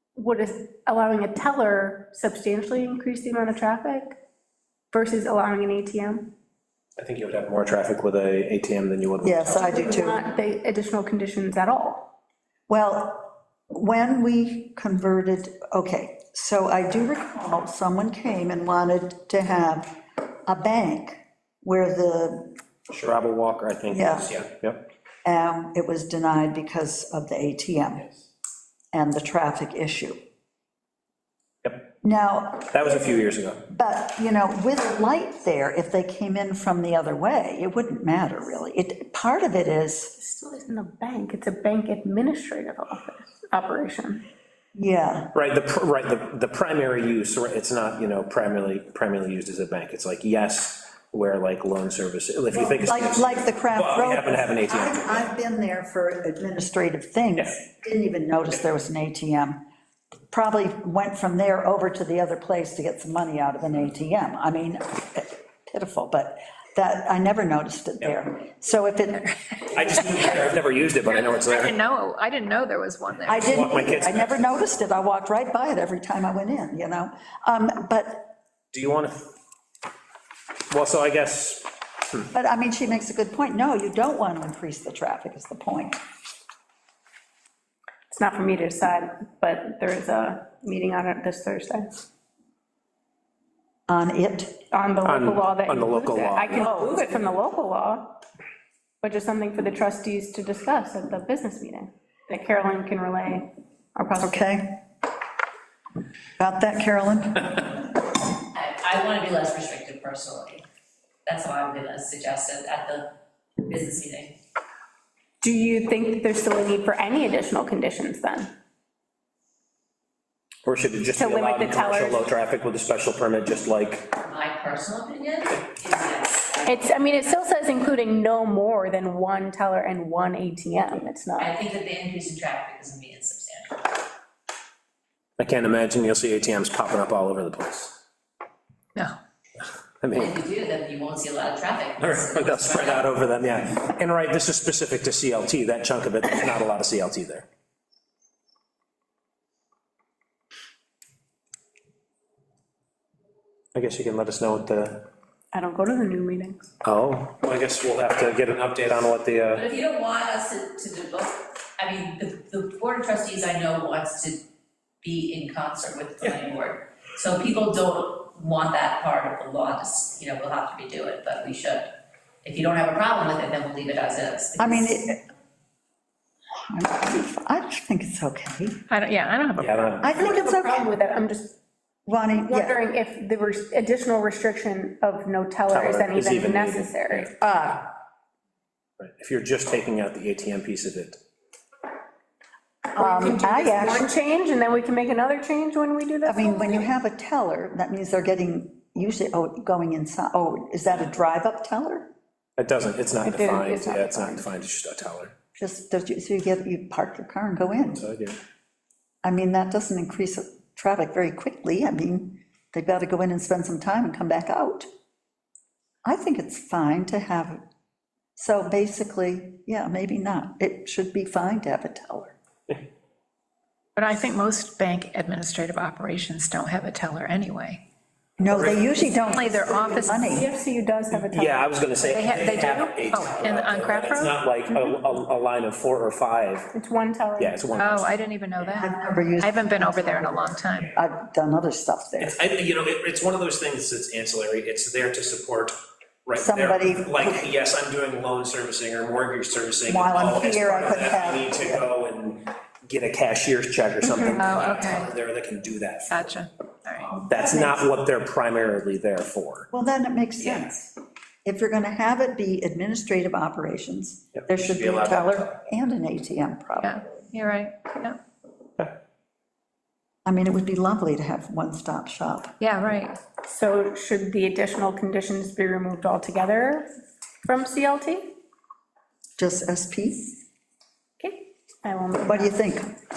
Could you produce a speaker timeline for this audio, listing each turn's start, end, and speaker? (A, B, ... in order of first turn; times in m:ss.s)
0:00.2-0:04.2 A
0:04.9-0:06.3 A
0:07.0-0:09.6 B
0:09.2-0:10.2 C
0:09.5-0:12.1 A
0:12.7-0:22.6 C
0:22.9-0:24.8 B
0:23.9-0:24.3 C
0:25.2-0:28.1 C
0:28.9-0:30.2 C
0:31.6-0:31.9 B
0:32.0-0:33.1 C
0:32.7-0:33.6 B
0:33.7-0:40.1 C
0:40.2-0:44.2 A
0:44.7-0:45.3 C
0:45.3-0:55.3 B
0:52.6-0:59.6 C
1:00.3-1:09.3 C
1:09.6-1:11.8 B
1:11.1-1:13.6 D
1:13.2-1:18.3 C
1:13.4-1:14.5 B
1:18.7-1:19.3 B
1:20.7-1:22.3 B
1:22.3-1:26.0 C
1:28.1-1:32.0 A
1:33.9-1:34.6 C
1:34.7-1:38.2 A
1:35.0-1:37.0 B
1:39.0-1:44.4 A
1:44.1-1:44.8 C
1:46.4-1:47.9 C
1:48.5-1:50.6 E
1:51.2-1:54.4 E
1:55.4-1:58.5 A
2:00.6-2:04.1 B
2:01.0-2:02.3 A
2:04.2-2:06.9 E
2:06.6-2:11.5 A
2:11.4-2:13.9 E
2:15.4-2:18.0 B
2:20.0-2:20.3 B
2:20.1-2:23.1 E
2:22.0-2:27.4 B
2:33.7-2:35.1 B
2:35.5-2:36.7 A
2:36.8-2:39.6 B
2:39.5-2:44.4 E
2:45.0-2:51.9 E
2:52.4-2:55.1 E
2:54.6-2:55.2 C
2:56.7-2:58.8 C
2:58.9-2:59.8 D
2:59.6-3:00.1 B
3:00.0-3:00.9 C
3:00.0-3:01.6 A
3:02.0-3:02.8 C
3:02.5-3:07.3 A
3:05.7-3:07.2 B
3:07.4-3:07.9 C
3:09.0-3:11.2 B
3:12.9-3:14.1 C
3:13.0-3:16.9 A
3:16.2-3:22.1 C
3:22.6-3:25.3 B
3:23.2-3:24.5 A
3:25.6-3:28.0 C
3:27.9-3:28.4 B
3:29.2-3:34.9 C
3:36.0-3:37.6 C
3:38.4-3:42.4 C
3:44.0-3:47.8 D
3:48.4-3:50.5 C
3:48.5-3:48.9 B
3:49.2-3:50.3 D
3:50.2-3:51.7 A
3:51.1-3:56.7 B
3:52.1-3:54.4 D
3:56.7-3:57.6 A
3:57.4-3:58.2 B
3:57.7-4:01.0 D
3:58.7-4:02.4 C
4:02.2-4:16.2 B
4:06.3-4:07.5 C
4:09.9-4:11.8 C
4:14.3-4:15.1 D
4:16.1-4:17.2 D
4:17.0-4:19.7 B
4:17.1-4:17.8 C
4:19.7-4:27.1 C
4:24.4-4:25.6 B
4:26.8-4:28.2 D
4:30.2-4:32.5 C
4:32.6-4:33.2 D
4:33.4-4:36.9 A
4:37.4-4:38.4 A
4:39.4-4:40.4 C
4:41.2-4:42.6 A
4:42.2-4:42.9 C